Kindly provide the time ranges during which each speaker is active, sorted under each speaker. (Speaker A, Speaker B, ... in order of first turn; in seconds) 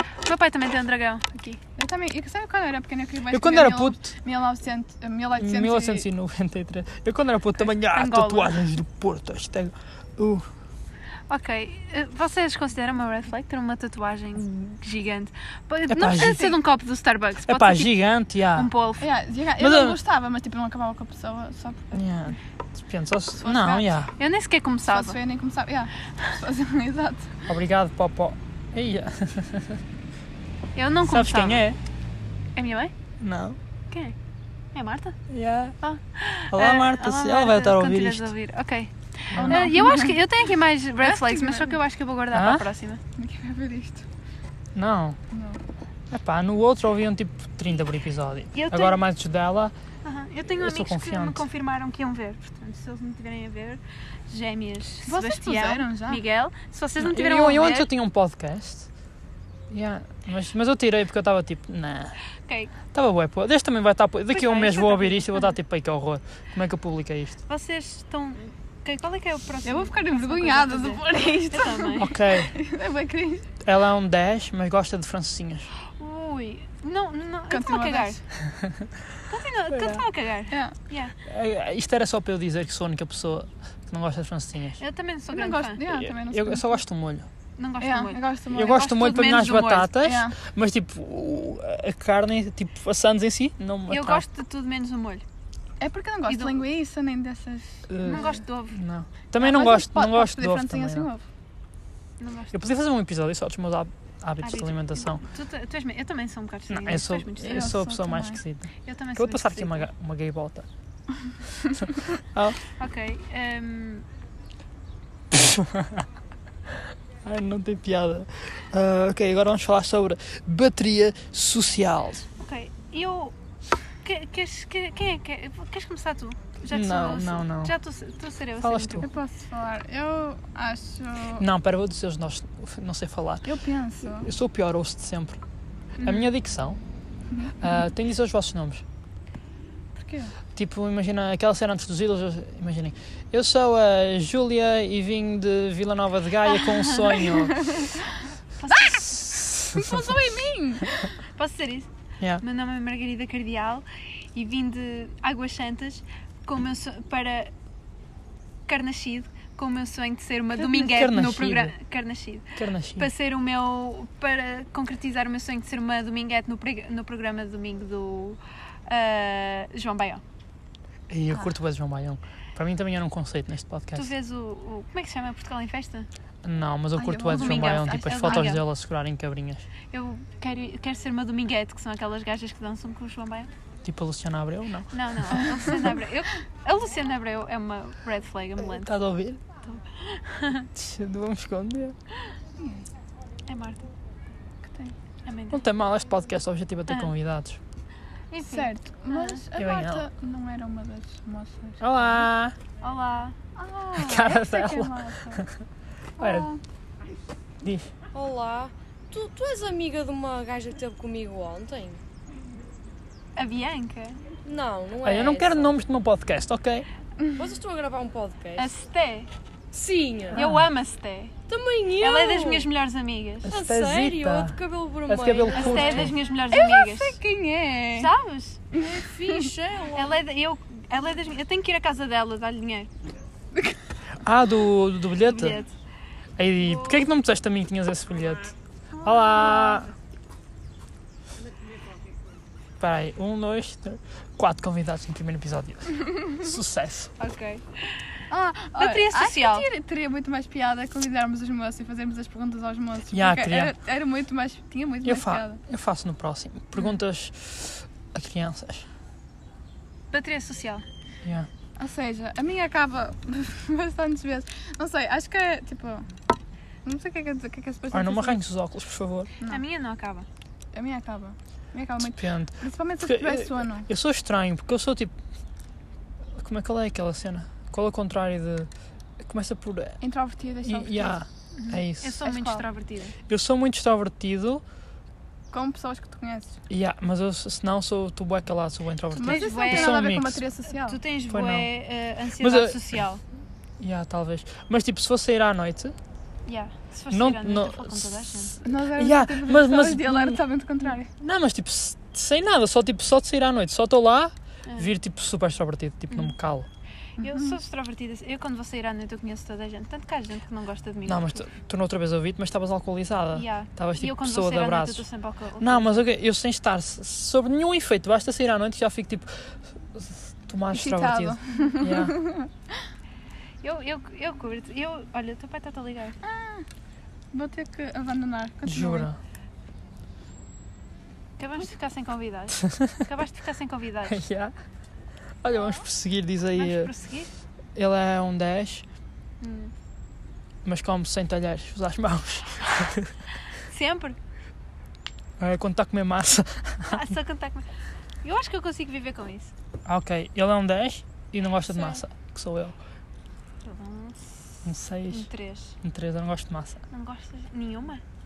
Speaker A: 0.2-1.6, 7.7-8.6, 11.3-17.9, 18.5-19.1, 24.2-25.2, 30.8-31.6, 32.5-32.9, 34.7-35.1, 35.8-43.0, 48.5-49.0, 50.0-57.9, 62.5-62.7, 64.3-65.5, 67.5-72.2, 76.0-78.2, 79.3-81.1, 84.8-85.9, 87.6-89.9, 93.9-95.2, 96.3-96.6, 98.0-98.7, 102.2-102.7, 104.4-107.7, 108.8-109.8, 112.8-114.0, 122.4-123.3, 124.0-129.1, 136.0-136.3, 146.6-147.3, 148.6-149.1, 151.3-151.9, 152.4-157.5, 158.7-170.2, 173.9-176.1, 177.2-178.6, 179.9-183.5, 184.9-188.9, 189.6-190.7, 193.5-193.9, 195.2-195.7, 198.3-199.4, 202.8-203.5, 213.3-214.2, 218.6-219.3, 220.3-221.3, 222.0-223.5, 225.5-227.2, 227.9-228.6, 229.9-232.9, 235.2-235.7, 236.6-237.1, 239.0-239.8, 247.2-248.1, 248.8-249.7, 260.1-260.8, 269.4-270.2, 281.5-283.1, 289.2-290.1, 290.9-293.2, 296.4-298.6, 307.2-311.5, 313.3-316.0, 323.6-326.1, 331.4-334.2, 336.6-337.3, 339.4-339.7, 343.7-344.2, 346.9-347.6, 348.2-349.5, 351.7-352.0, 353.6-355.8, 356.9-358.0
Speaker B: 1.8-6.1, 16.2-16.6, 19.0-22.0, 23.4-23.9, 24.9-27.4, 39.3-40.2, 41.0-41.8, 43.2-44.0, 45.3-45.6, 55.0-56.2, 69.6-73.5, 77.5-78.2, 80.5-80.7, 85.3-86.6, 87.8-88.8, 90.0-90.3, 95.8-98.4, 99.4-101.2, 107.4-108.4, 129.0-131.4, 133.4-134.3, 137.3-137.5, 139.9-140.3, 148.7-149.0, 149.7-151.1, 177.0-178.5, 192.6-192.8, 194.7-194.9, 198.4-202.2, 203.5-205.4, 206.2-206.6, 226.5-228.1, 228.7-229.5, 248.3-255.6, 261.8-266.1, 266.8-268.4, 270.7-273.9, 280.0-281.2, 282.2-282.6, 285.5-286.6, 289.1-291.0, 298.6-301.1, 307.2-307.6, 320.7-322.8, 326.2-326.6, 327.3-329.1, 335.5-335.8
Speaker C: 3.3-4.2, 5.4-10.5, 15.9-16.5, 17.5-18.7, 19.6-20.0, 21.9-24.1, 27.5-29.8, 31.0-31.8, 33.2-33.6, 35.3-35.8, 36.5-38.3, 39.3-39.6, 42.3-42.6, 44.7-45.2, 46.1-49.7, 50.6-51.4, 57.0-58.9, 59.7-62.1, 62.9-67.4, 72.0-72.5, 73.6-75.7, 78.5-78.9, 79.7-80.0, 81.2-84.8, 85.9-87.3, 88.5-94.2, 97.9-101.1, 102.5-105.2, 106.7-110.7, 112.2-112.6, 115.3-116.0, 117.2-122.2, 126.7-127.7, 128.6-129.1, 131.3-133.6, 134.2-135.4, 136.0-136.8, 137.6-138.8, 140.5-147.8, 148.8-150.1, 160.6-161.7, 162.6-163.1, 171.1-174.1, 176.4-179.7, 183.8-185.5, 188.6-189.4, 190.7-191.9, 195.5-197.6, 199.6-200.1, 201.8-202.6, 203.9-205.6, 206.2-206.5, 207.6-207.9, 215.0-216.9, 220.3-220.7, 223.4-226.2, 234.2-235.6, 236.4-239.9, 242.8-247.1, 253.1-253.7, 255.0-258.9, 261.2-261.5, 267.9-269.3, 272.0-275.1, 276.4-278.7, 279.2-280.0, 280.6-282.2, 283.3-284.6, 286.7-290.4, 291.3-291.7, 292.4-293.0, 293.8-295.9, 297.1-300.4, 301.2-306.7, 311.1-315.0, 315.6-322.2, 328.6-329.2, 334.1-334.5, 335.4-336.9, 337.8-338.8, 340.6-343.1, 345.4-347.1, 349.9-352.8, 354.6-355.3, 355.8-356.8
Speaker D: 208.1-212.0, 214.4-215.7, 217.3-218.7, 219.7-220.4, 221.5-222.7, 223.4-226.1, 228.8-230.2